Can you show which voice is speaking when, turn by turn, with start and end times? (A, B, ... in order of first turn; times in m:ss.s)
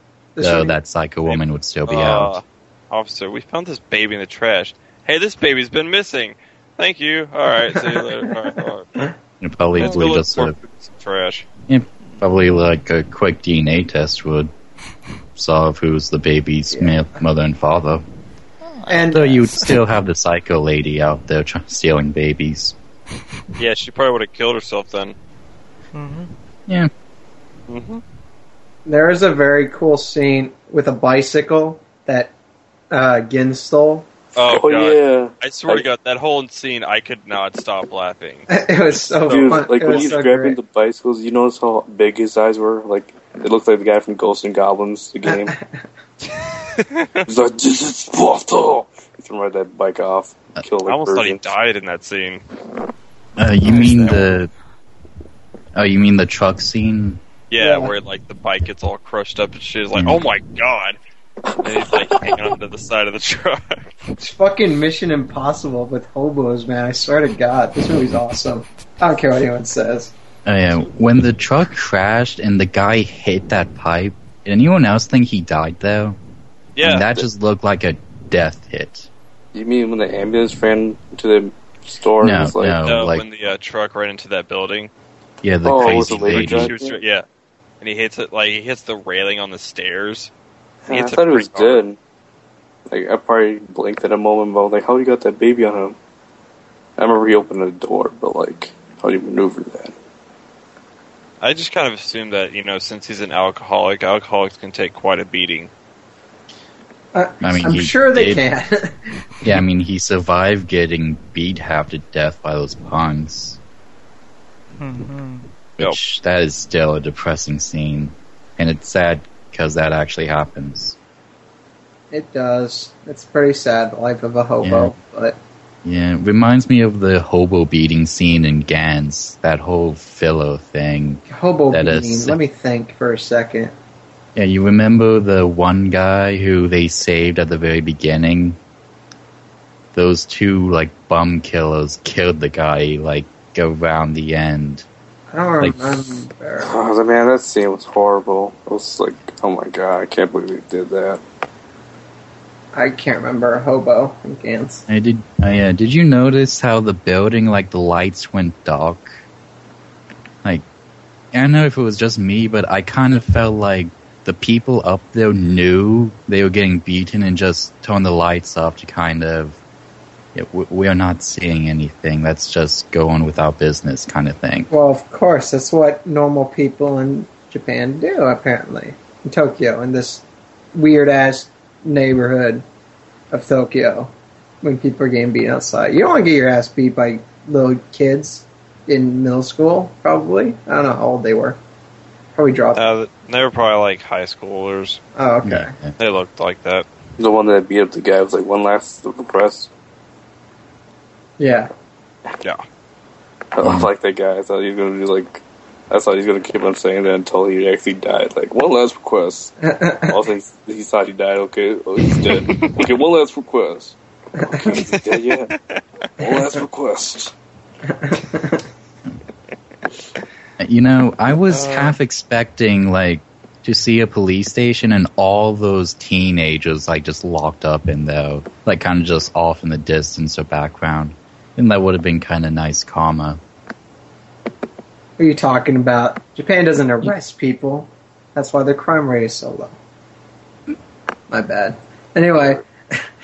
0:00.4-0:00.8 A
0:00.4-0:02.4 B
0:01.3-0:08.9 C
0:07.7-0:08.3 A
0:09.4-0:10.6 B
0:09.8-0:11.5 C
0:11.7-0:14.5 B
0:15.4-0:18.0 B
0:16.7-0:17.0 A
0:18.8-0:19.8 D
0:18.9-0:19.4 A
0:19.1-0:22.8 B
0:23.6-0:25.2 C
0:25.9-0:26.3 D
0:27.7-0:28.0 C
0:28.9-0:32.3 A
0:32.9-0:34.1 A
0:34.4-0:38.5 C
0:34.4-0:35.9 E
0:38.5-0:40.6 A
0:39.2-0:40.2 C
0:39.3-0:45.6 E
0:45.3-0:45.8 A
0:46.7-0:47.2 C
0:47.3-0:51.5 E
0:50.8-0:52.4 C
0:53.4-0:54.5 B
0:53.7-0:54.2 C
0:55.8-0:57.2 B
0:57.5-1:01.0 C
0:57.6-0:57.9 A
1:00.0-1:00.3 B
1:01.5-1:02.4 E
1:01.6-1:04.0 C
1:04.2-1:10.1 A
1:10.4-1:16.2 B
1:16.8-1:17.2 C
1:16.8-1:19.1 B
1:19.5-1:22.8 E
1:22.2-1:23.2 B
1:22.8-1:24.9 C
1:25.4-1:26.7 B
1:25.6-1:27.0 E
1:25.9-1:27.2 C
1:27.8-1:30.3 C
1:30.9-1:32.0 E
1:30.9-1:31.8 C
1:32.9-1:36.0 E
1:37.0-1:40.0 E
1:41.4-1:45.7 C
1:47.1-1:49.3 A
1:47.4-1:48.4 B
1:49.4-1:53.6 B
1:54.8-1:55.5 D
1:55.8-2:01.0 B
2:02.1-2:05.4 A
2:04.6-2:05.0 B
2:05.8-2:12.4 B
2:11.3-2:13.7 A
2:14.4-2:18.6 B
2:19.9-2:24.8 B
2:25.3-2:26.7 A
2:25.6-2:26.0 B
2:26.6-2:31.2 E
2:32.7-2:34.8 A
2:34.9-2:39.2 B
2:41.3-2:49.6 B
2:50.4-2:54.7 B
2:54.7-3:00.2 A
3:00.7-3:02.6 A
3:03.3-3:11.6 A
3:12.4-3:12.8 A
3:12.8-3:15.0 C
3:15.2-3:15.7 A
3:15.4-3:15.9 B
3:16.0-3:16.9 C
3:17.2-3:19.7 E
3:21.4-3:21.7 A
3:23.5-3:29.6 E
3:23.6-3:23.9 B
3:29.6-3:30.2 A
3:30.1-3:35.6 E
3:32.2-3:32.9 C
3:34.4-3:34.7 A
3:35.2-3:35.8 C
3:36.2-3:37.3 E
3:37.9-3:38.6 A
3:40.6-3:53.4 B
3:41.5-3:41.9 C
3:55.2-3:59.8 A
4:01.3-4:03.0 A